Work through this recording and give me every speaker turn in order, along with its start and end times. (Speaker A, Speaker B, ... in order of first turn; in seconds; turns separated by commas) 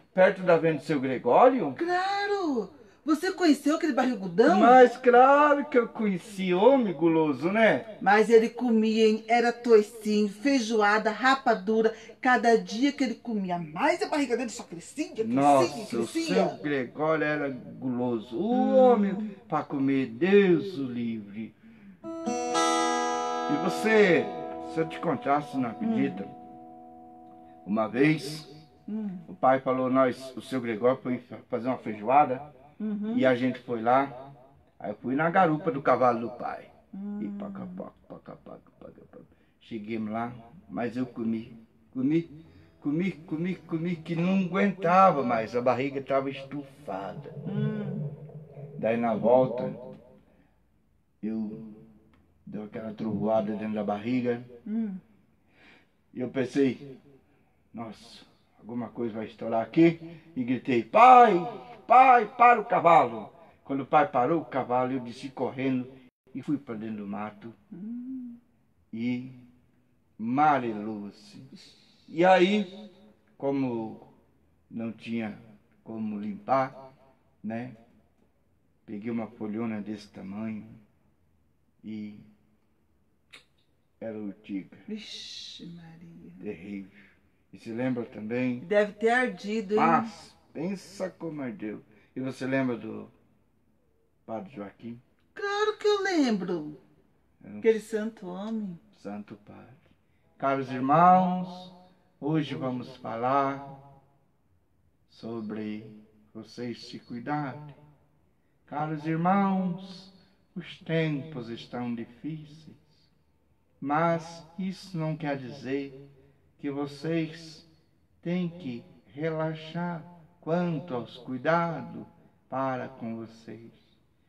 Speaker A: 0.1-1.8, Speaker B: 1.8-4.8, Speaker A: 4.5-7.9, Speaker B: 8.0-16.6, Speaker A: 15.2-21.5, Speaker B: 18.5-19.3, Speaker A: 23.5-26.3, Speaker B: 25.8-26.2, Speaker A: 27.6-28.5, Speaker B: 28.9-29.2, Speaker A: 29.3-32.4, Speaker B: 32.8-33.3, Speaker A: 33.1-34.1, Speaker A: 34.8-42.3, Speaker B: 36.9-37.8, Speaker A: 42.8-47.3, Speaker B: 47.4-48.0, Speaker A: 48.8-49.8, Speaker A: 51.2-51.6, Speaker A: 52.5-54.5, Speaker B: 54.6-55.0, Speaker A: 56.1-56.8, Speaker A: 57.7-67.5, Speaker B: 67.7-68.4, Speaker A: 68.9-69.4, Speaker A: 70.2-71.5, Speaker A: 72.1-72.7, Speaker A: 73.4-74.1, Speaker A: 74.7-76.8, Speaker A: 77.4-77.8, Speaker A: 78.9-80.8, Speaker A: 81.8-82.2, Speaker A: 84.0-84.8, Speaker B: 84.9-86.4, Speaker A: 86.4-86.9, Speaker A: 87.5-88.6, Speaker B: 88.6-90.1, Speaker A: 89.8-93.1, Speaker A: 94.3-95.0, Speaker B: 95.3-96.8, Speaker A: 97.4-97.8, Speaker B: 97.6-98.8, Speaker A: 98.9-99.8, Speaker A: 100.4-103.7, Speaker A: 105.1-107.7, Speaker A: 108.7-112.9, Speaker A: 113.8-116.0, Speaker A: 116.6-117.6, Speaker A: 118.2-123.8